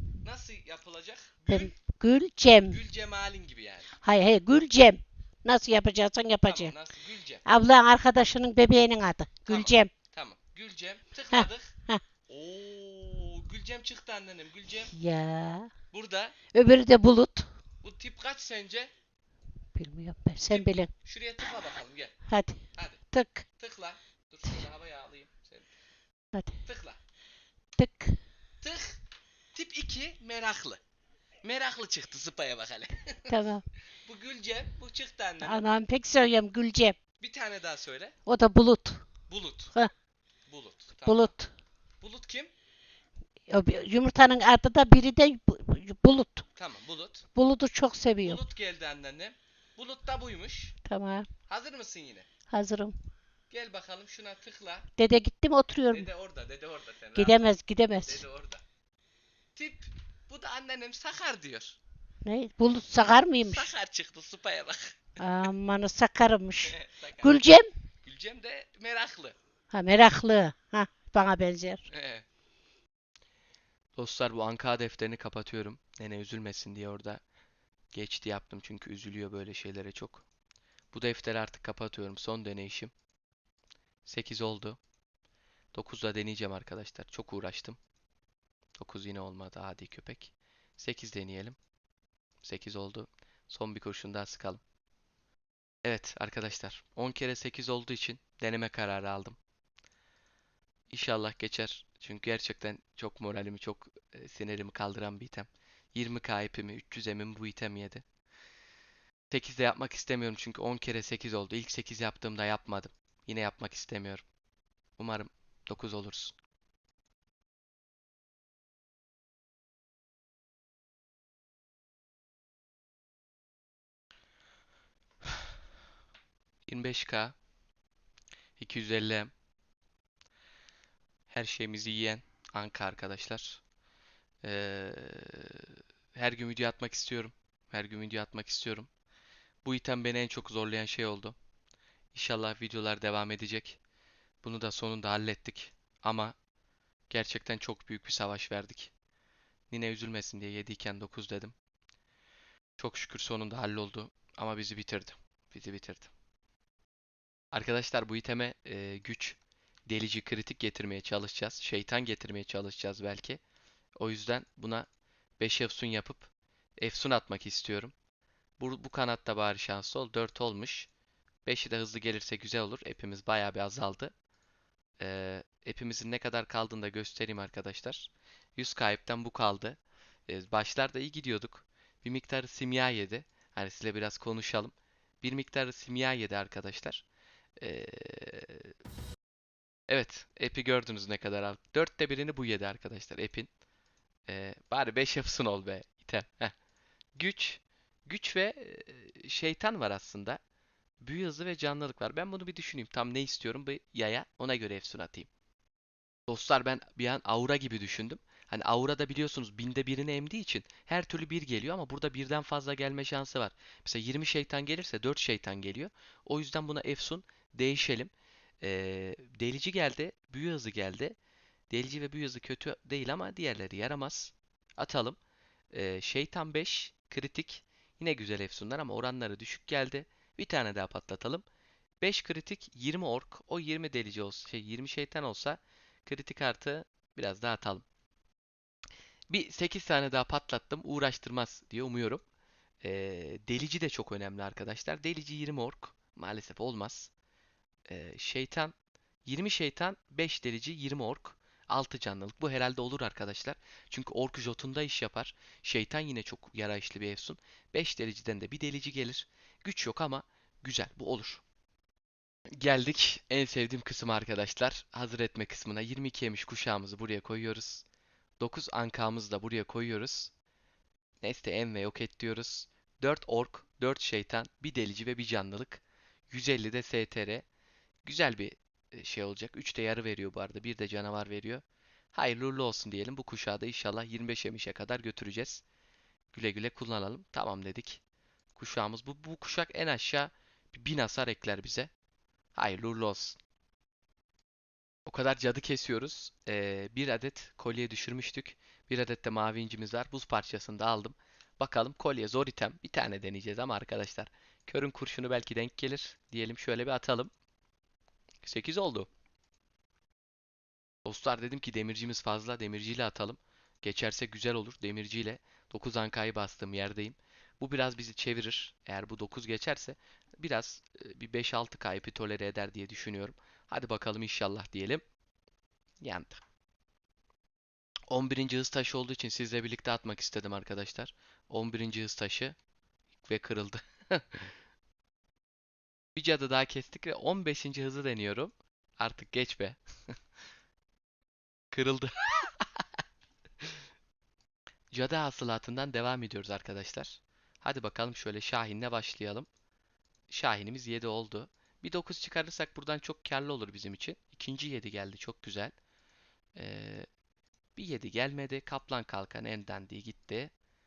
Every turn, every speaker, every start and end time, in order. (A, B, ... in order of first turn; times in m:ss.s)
0:00.2-0:01.8 A
0:01.5-0:02.8 B
0:02.7-0:03.9 A
0:04.0-0:06.7 B
0:06.4-0:07.4 A
0:07.5-0:09.9 B
0:09.5-0:11.7 A
0:11.3-0:12.0 B
0:12.3-0:14.9 A
0:14.9-0:15.7 B
0:15.9-0:16.4 A
0:16.5-0:17.5 B
0:17.8-0:18.9 A
0:19.8-0:20.9 B
0:20.5-0:22.2 A
0:22.3-0:22.6 B
0:22.8-0:23.0 A
0:23.1-0:23.4 B
0:23.6-0:25.7 A
0:26.6-0:27.0 A
0:27.8-0:28.2 B
0:28.6-0:29.0 A
0:29.5-0:30.8 A
0:31.4-0:33.4 A
0:33.3-0:33.7 B
0:34.0-0:35.6 A
0:35.4-0:37.0 B
0:37.2-0:38.1 A
0:38.3-0:39.0 B
0:39.3-0:39.8 A
0:40.5-0:41.3 A
0:41.0-0:41.5 B
0:42.0-0:42.5 A
0:43.5-0:46.4 B
0:46.6-0:47.2 A
0:47.4-0:48.4 B
0:48.2-0:50.8 A
0:50.9-0:51.3 B
0:51.5-0:52.3 A
0:52.5-0:52.9 B
0:53.5-0:54.9 A
0:55.0-0:56.1 B
0:55.9-0:57.5 A
0:57.2-0:58.2 B
0:58.0-0:58.6 A
0:59.6-1:01.8 A
1:02.2-1:03.7 B
1:03.4-1:05.1 A
1:05.2-1:07.7 B
1:06.6-1:07.4 A
1:08.0-1:09.4 A
1:09.7-1:11.8 B
1:11.9-1:12.3 A
1:14.0-1:17.2 A
1:17.9-1:20.2 A
1:20.9-1:22.9 A
1:24.0-1:24.8 A
1:25.7-1:27.8 A
1:28.8-1:31.6 A
1:32.4-1:34.6 A
1:35.8-1:39.4 A
1:40.9-1:48.0 A
1:49.3-1:54.2 A
1:55.0-1:56.4 A
2:06.7-2:07.4 A
2:08.6-2:09.3 A
2:11.3-2:13.6 A
2:14.4-2:18.9 A
2:19.6-2:21.4 A
2:22.1-2:23.8 A
2:24.4-2:26.3 A
2:27.1-2:28.9 A
2:29.7-2:31.6 A
2:32.8-2:36.1 A
2:37.5-2:39.4 A
2:39.9-2:43.4 A
2:44.0-2:44.9 A
2:45.4-2:47.9 A
2:48.6-2:50.9 A
2:51.4-2:54.1 A
2:55.0-3:07.0 A
3:07.6-3:08.7 A
3:09.9-3:13.5 A
3:14.3-3:16.5 A
3:17.2-3:20.4 A
3:21.0-3:25.3 A
3:26.3-3:41.2 A
3:41.7-3:45.2 A
3:45.7-3:51.4 A
3:52.0-3:57.8 A
3:59.3-4:02.2 A
4:02.8-4:07.1 A
4:07.9-4:21.4 A
4:22.6-4:27.8 A
4:28.4-4:30.3 A
4:31.2-4:37.5 A
4:38.0-4:45.6 A
4:46.3-4:48.0 A
4:48.6-4:51.9 A
4:52.6-4:53.4 A
4:55.1-5:07.3 A
5:08.4-5:09.1 A
5:11.0-5:25.0 A
5:26.0-5:26.4 A
5:28.1-5:32.6 A
5:33.2-5:34.5 A
5:36.2-5:40.1 A
5:41.7-5:42.8 A
5:44.9-5:49.5 A
5:50.3-5:55.7 A
5:56.6-5:57.1 A
5:57.8-6:00.5 A